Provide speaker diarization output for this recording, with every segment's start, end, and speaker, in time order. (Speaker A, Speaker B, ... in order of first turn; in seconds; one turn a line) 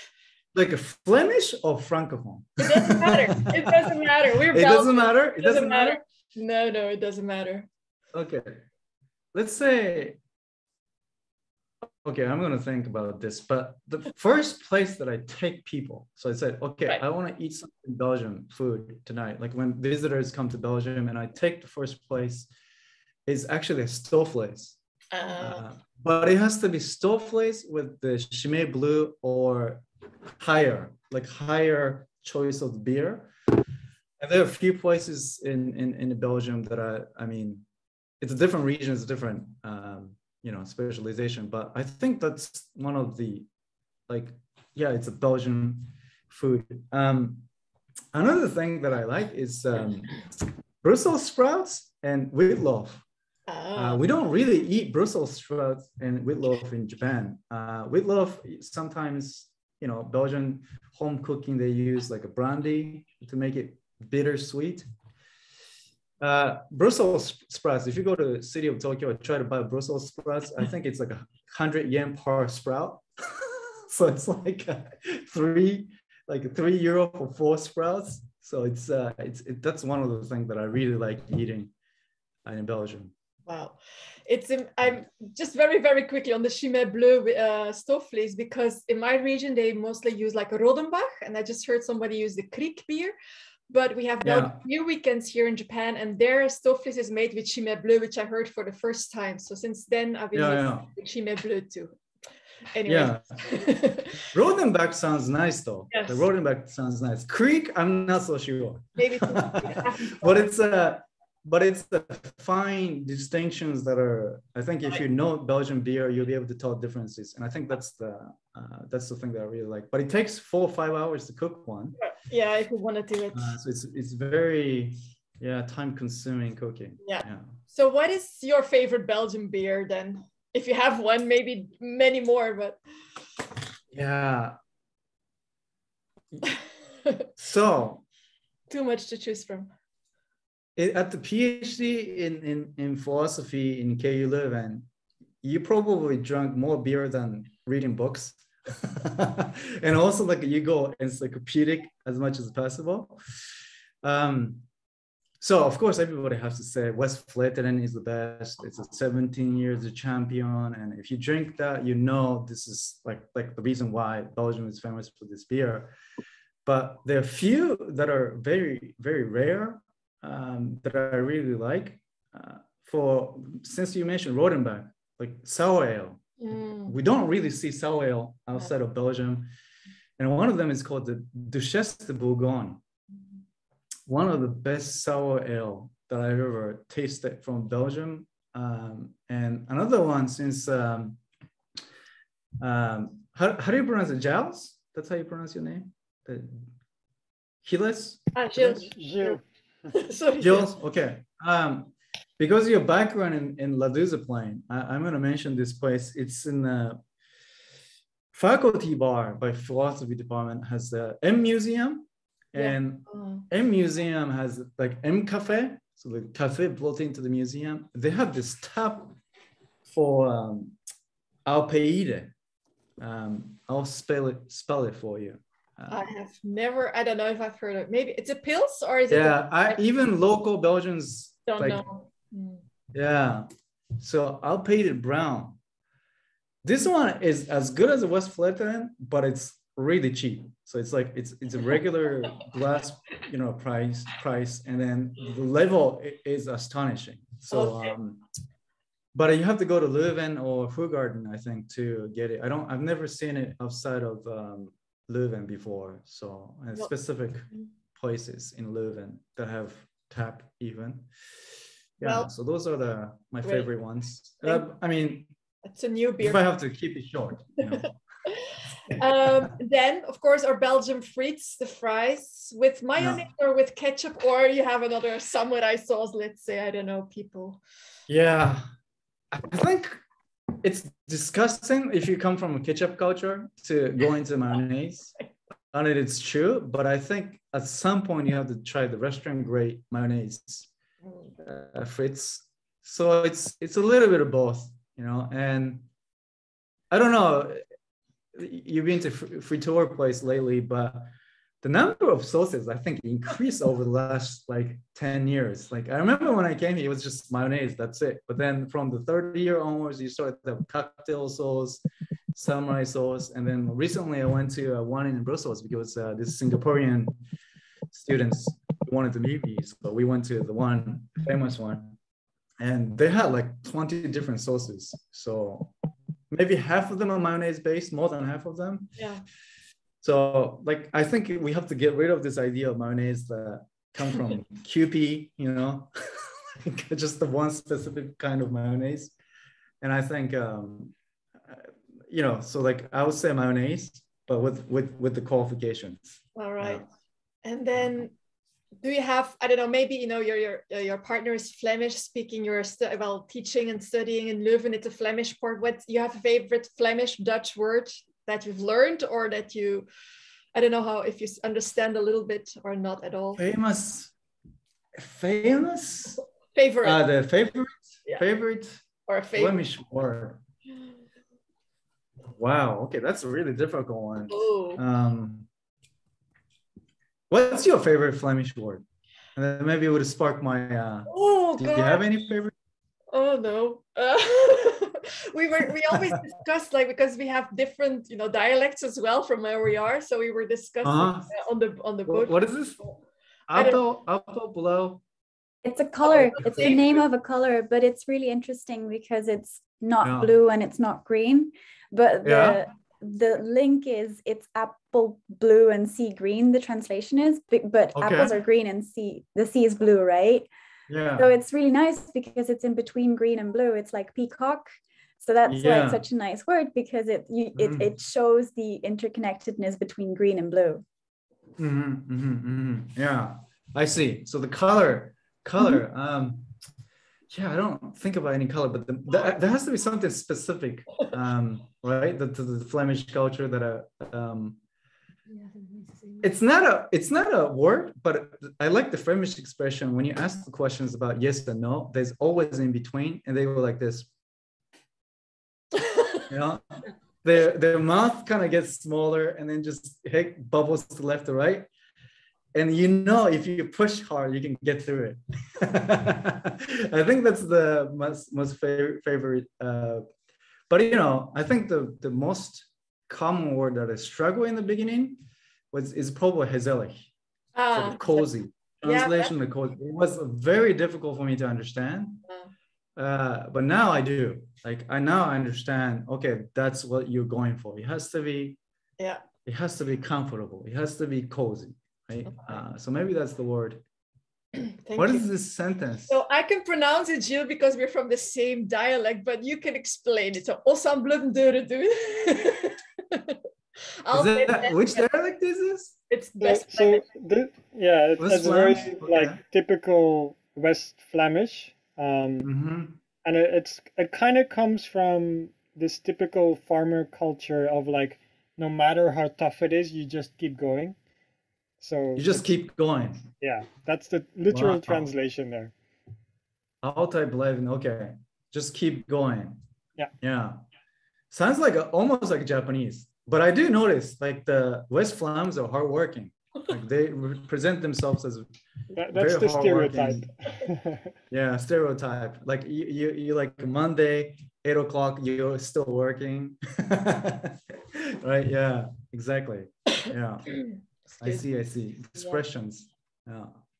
Speaker A: 0.5-6.0
Speaker B: 2.6-7.7
Speaker A: 8.1-8.6
Speaker A: 9.3-10.2
Speaker A: 11.8-22.5
Speaker A: 23.2-24.8
Speaker B: 25.1-25.7
Speaker A: 25.4-29.8
Speaker A: 30.4-33.3
Speaker A: 34.2-37.6
Speaker A: 38.2-43.5
Speaker A: 44.1-47.5
Speaker A: 48.1-50.2
Speaker A: 50.8-53.0
Speaker B: 53.5-54.0
Speaker A: 53.8-64.8
Speaker A: 66.2-81.7
Speaker A: 82.5-83.1
Speaker B: 83.5-93.1
Speaker B: 93.7-102.0
Speaker A: 94.2-94.6
Speaker A: 100.3-100.9
Speaker B: 102.7-104.2
Speaker A: 102.9-103.2
Speaker A: 104.3-122.0
Speaker B: 105.9-106.2
Speaker B: 109.0-110.4
Speaker B: 122.0-123.5
Speaker A: 123.3-127.5
Speaker B: 127.0-132.8
Speaker A: 133.9-134.6
Speaker A: 137.4-138.0
Speaker B: 138.7-139.7
Speaker A: 140.8-144.9
Speaker A: 145.4-153.2
Speaker A: 154.0-154.6
Speaker A: 155.4-165.9
Speaker A: 166.6-176.2
Speaker B: 176.4-177.0
Speaker A: 176.9-179.5
Speaker A: 180.2-182.8
Speaker A: 184.1-191.2
Speaker A: 192.6-196.6
Speaker A: 197.6-198.9
Speaker B: 198.3-200.7
Speaker C: 198.9-199.4
Speaker A: 200.4-207.0
Speaker A: 208.3-219.1
Speaker B: 212.5-213.4
Speaker A: 219.9-220.8
Speaker A: 221.5-222.3
Speaker A: 223.0-226.0
Speaker B: 225.9-229.8
Speaker A: 229.1-231.8
Speaker B: 231.5-232.6
Speaker A: 232.9-233.5
Speaker A: 234.0-235.6
Speaker A: 236.6-248.2
Speaker B: 247.5-247.9
Speaker A: 249.1-261.1
Speaker A: 262.0-265.3
Speaker B: 262.0-262.3
Speaker B: 265.6-266.4
Speaker A: 266.2-267.9
Speaker B: 267.8-277.6
Speaker A: 273.0-273.2
Speaker A: 278.1-278.6
Speaker A: 279.3-280.0
Speaker A: 280.6-285.1
Speaker A: 285.7-290.7
Speaker A: 291.4-295.9
Speaker A: 296.9-297.6
Speaker A: 298.3-301.1
Speaker A: 301.6-317.1
Speaker A: 317.9-322.0
Speaker A: 322.6-325.7
Speaker A: 326.3-329.0
Speaker B: 329.0-329.2
Speaker A: 330.0-339.1
Speaker A: 339.8-340.9
Speaker A: 341.5-346.9
Speaker B: 346.4-346.9
Speaker B: 347.4-348.1
Speaker B: 348.8-359.9
Speaker B: 360.5-363.4
Speaker A: 363.4-364.1
Speaker A: 365.0-366.2
Speaker B: 366.5-367.0
Speaker A: 366.8-368.8
Speaker B: 369.1-369.6
Speaker A: 369.4-370.4
Speaker A: 372.4-375.5
Speaker B: 374.3-374.8
Speaker A: 377.3-378.8
Speaker A: 379.4-382.5
Speaker B: 381.1-382.0
Speaker B: 383.1-392.4
Speaker A: 390.8-391.3
Speaker A: 392.1-392.8
Speaker A: 393.5-395.0
Speaker D: 395.6-410.5
Speaker B: 396.1-396.8
Speaker A: 396.4-396.8
Speaker A: 400.0-400.3
Speaker A: 402.2-402.6
Speaker A: 407.9-408.4
Speaker A: 410.9-411.3
Speaker D: 411.1-420.8
Speaker A: 415.5-416.0
Speaker A: 417.6-417.9
Speaker A: 421.6-426.5
Speaker A: 427.3-434.6
Speaker A: 436.2-444.1
Speaker B: 445.8-446.2
Speaker A: 446.3-446.6
Speaker A: 447.2-451.7
Speaker A: 452.5-460.0
Speaker A: 460.7-465.2
Speaker A: 465.7-467.0
Speaker B: 467.5-468.3
Speaker A: 467.7-472.2
Speaker B: 468.8-469.3
Speaker A: 473.0-478.6
Speaker A: 479.4-483.8
Speaker B: 484.6-485.3
Speaker A: 485.0-486.2
Speaker B: 486.1-493.4
Speaker B: 494.0-495.0
Speaker A: 494.1-496.0
Speaker B: 496.1-497.0
Speaker C: 496.4-502.5
Speaker A: 498.2-499.4
Speaker A: 502.4-503.0
Speaker C: 503.2-511.0
Speaker C: 511.8-512.6
Speaker A: 512.1-513.3
Speaker C: 513.4-515.7
Speaker A: 514.5-515.1
Speaker A: 516.8-519.6
Speaker A: 520.2-520.6
Speaker A: 521.3-528.5
Speaker C: 528.9-531.1
Speaker A: 529.1-530.3
Speaker A: 531.3-540.6
Speaker A: 541.2-543.6